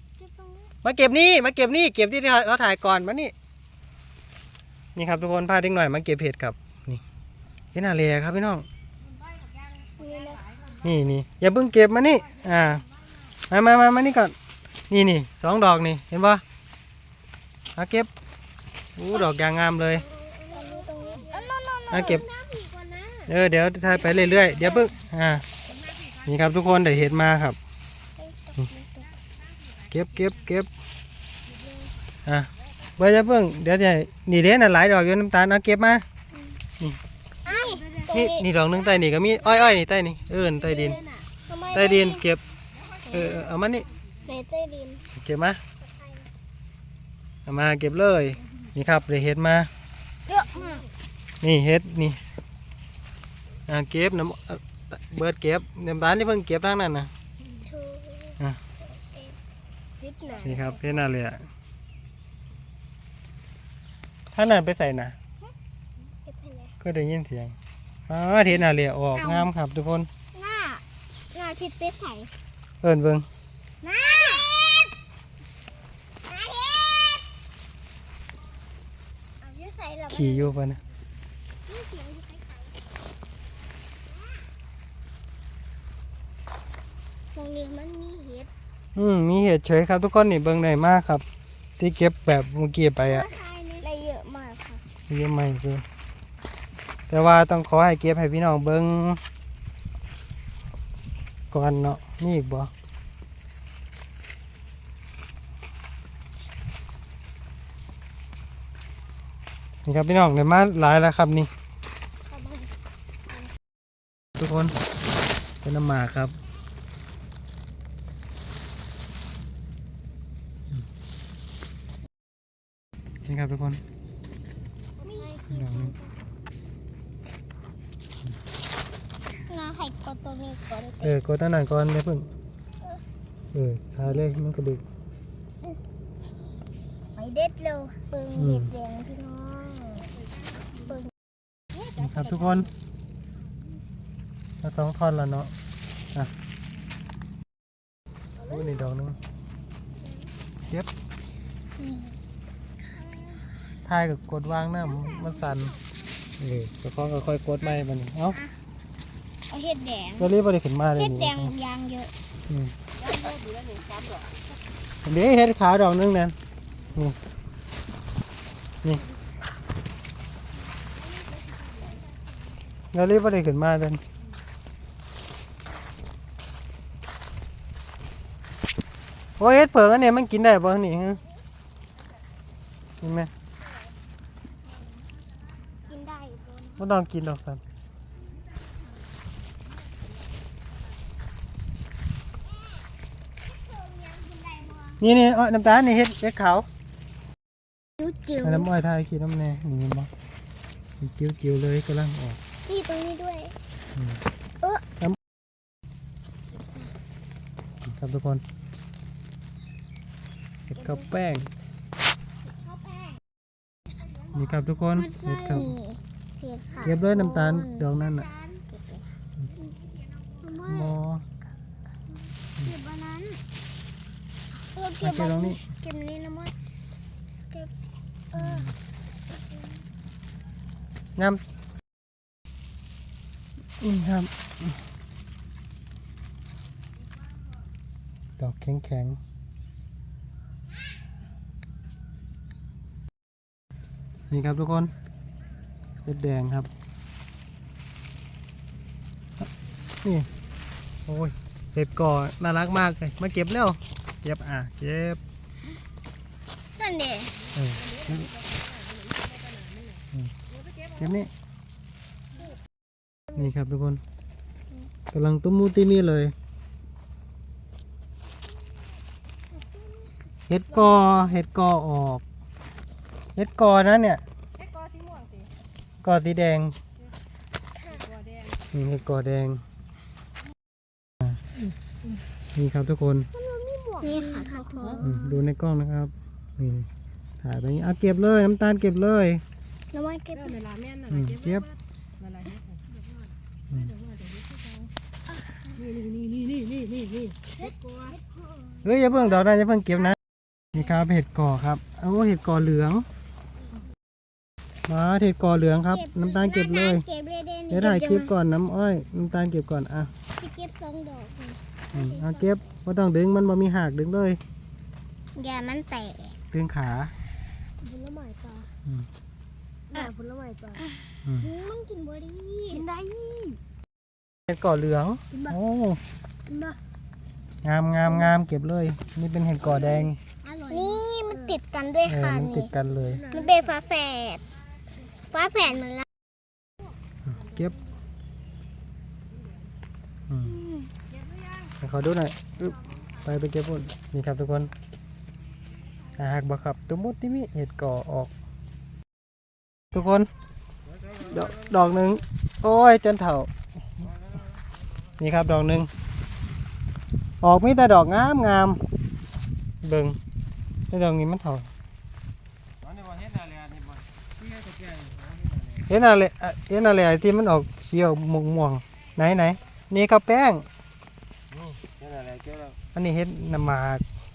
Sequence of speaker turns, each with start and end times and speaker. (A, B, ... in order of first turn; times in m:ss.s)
0:00.8-0:03.3 A
0:05.0-0:07.0 A
0:07.7-0:08.7 A
0:10.0-0:10.5 B
0:10.8-0:12.8 A
0:13.5-0:14.3 A
0:14.9-0:16.4 A
0:17.8-0:18.1 A
0:19.0-0:20.0 A
0:19.9-0:22.3 B
0:20.7-0:21.5 C
0:21.9-0:22.3 A
0:22.1-0:23.2 C
0:23.2-0:25.4 A
0:24.1-0:24.6 B
0:26.2-0:27.6 A
0:28.2-0:29.1 B
0:29.9-0:30.7 A
0:32.2-0:36.0 A
0:36.3-0:36.6 B
0:37.4-0:38.4 B
0:37.8-0:38.0 C
0:38.1-0:41.0 A
0:40.7-0:41.0 C
0:40.7-0:42.2 B
0:41.7-0:42.4 A
0:43.1-0:43.9 A
0:43.1-0:43.4 B
0:44.2-0:45.0 B
0:45.2-0:45.6 A
0:45.8-0:46.3 B
0:47.4-0:49.7 A
0:50.3-0:50.8 B
0:51.4-0:52.4 A
0:53.7-0:57.1 A
0:57.6-0:59.4 B
1:00.0-1:00.5 C
1:00.3-1:00.9 B
1:00.4-1:01.4 A
1:04.3-1:05.1 A
1:06.2-1:06.7 B
1:06.8-1:07.6 A
1:08.1-1:10.1 A
1:09.1-1:09.5 B
1:10.3-1:12.3 B
1:12.8-1:13.2 A
1:13.8-1:14.9 B
1:16.3-1:17.3 B
1:19.4-1:20.6 B
1:20.1-1:20.8 A
1:21.7-1:22.7 B
1:27.3-1:28.5 B
1:28.9-1:31.2 A
1:31.8-1:33.3 A
1:33.0-1:34.8 B
1:35.1-1:35.8 A
1:37.1-1:39.2 A
1:41.5-1:42.7 A
1:49.8-1:51.5 A
1:52.3-1:52.7 B
1:54.4-1:54.7 A
1:55.6-1:56.3 A
2:03.2-2:03.8 A
2:05.0-2:05.4 C
2:05.0-2:06.0 B
2:05.5-2:05.9 A
2:09.4-2:11.2 B
2:11.0-2:12.3 A
2:13.5-2:14.8 A
2:17.2-2:20.1 B
2:18.4-2:18.7 A
2:20.8-2:21.1 B
2:22.0-2:22.7 A
2:24.6-2:25.5 A
2:28.4-2:29.2 A
2:31.8-2:32.2 B
2:33.8-2:35.8 A
2:36.4-2:38.4 A
2:38.3-2:38.6 B
2:39.5-2:40.3 B
2:40.2-2:41.5 A
2:40.9-2:42.1 B
2:43.1-2:44.2 C
2:45.0-2:46.3 A
2:52.9-2:54.0 A
2:59.4-3:01.2 A
3:03.0-3:03.3 A
3:05.8-3:06.8 B
3:06.8-3:07.6 A
3:14.0-3:15.0 B
3:15.0-3:16.7 A
3:18.0-3:18.7 B
3:18.4-3:20.1 A
3:21.0-3:22.4 A
3:22.6-3:23.5 B
3:24.0-3:24.2 A
3:27.8-3:28.4 A
3:30.7-3:31.5 A
3:34.3-3:35.7 A
3:34.9-3:37.9 B
3:36.8-3:38.3 A
3:38.6-3:39.0 B
3:40.4-3:41.0 B
3:40.7-3:41.2 A
3:42.6-3:43.4 B
3:44.6-3:46.5 B
3:45.0-3:45.6 A
3:48.3-3:48.7 B
3:48.3-3:48.7 A
3:51.2-3:51.4 A
3:53.8-3:54.7 A
3:58.4-3:59.2 A
4:04.3-4:04.9 A
4:06.0-4:06.7 A
4:10.0-4:10.3 A
4:11.1-4:15.2 A
4:16.8-4:17.4 B
4:17.5-4:18.3 A
4:17.9-4:19.9 C
4:21.0-4:21.3 A
4:23.3-4:24.0 A
4:25.1-4:26.3 A
4:30.5-4:32.2 A
4:33.4-4:34.2 A
4:34.7-4:35.4 C
4:36.0-4:36.7 A
4:37.8-4:38.1 B
4:38.7-4:39.6 A
4:42.6-4:43.3 A
4:43.4-4:44.2 C
4:44.0-4:45.1 B
4:44.8-4:45.1 C
4:45.0-4:46.9 A
4:47.4-4:49.4 A
4:49.9-4:50.6 B
4:50.5-4:51.5 C
4:51.1-4:51.7 A
4:52.2-4:52.8 C
4:54.1-4:54.8 C
4:55.5-4:55.8 B
4:55.9-4:57.9 C
4:58.8-5:00.2 A
5:00.7-5:03.0 A
5:04.9-5:07.0 A
5:05.9-5:08.3 B
5:07.7-5:10.1 A
5:10.3-5:12.6 B
5:11.9-5:14.4 A
5:15.3-5:16.4 B
5:16.5-5:17.1 A
5:17.8-5:18.7 C
5:19.9-5:20.8 C
5:21.2-5:21.5 A
5:21.4-5:22.8 B
5:22.7-5:23.6 C
5:24.5-5:26.0 A
5:27.6-5:30.2 A
5:30.5-5:30.7 C
5:30.7-5:32.7 B
5:32.0-5:33.3 A
5:33.3-5:33.7 C
5:33.3-5:34.4 B
5:35.3-5:36.0 B
5:37.3-5:37.7 A
5:40.3-5:40.6 A
5:40.4-5:40.9 B
5:41.8-5:44.7 A
5:46.2-5:48.3 A
5:49.9-5:50.3 A
5:51.2-5:53.5 A
5:55.2-5:55.9 A
5:57.4-5:58.8 A
5:59.8-6:00.2 A
6:00.9-6:01.7 A
6:05.9-6:10.6 A
6:12.9-6:14.0 A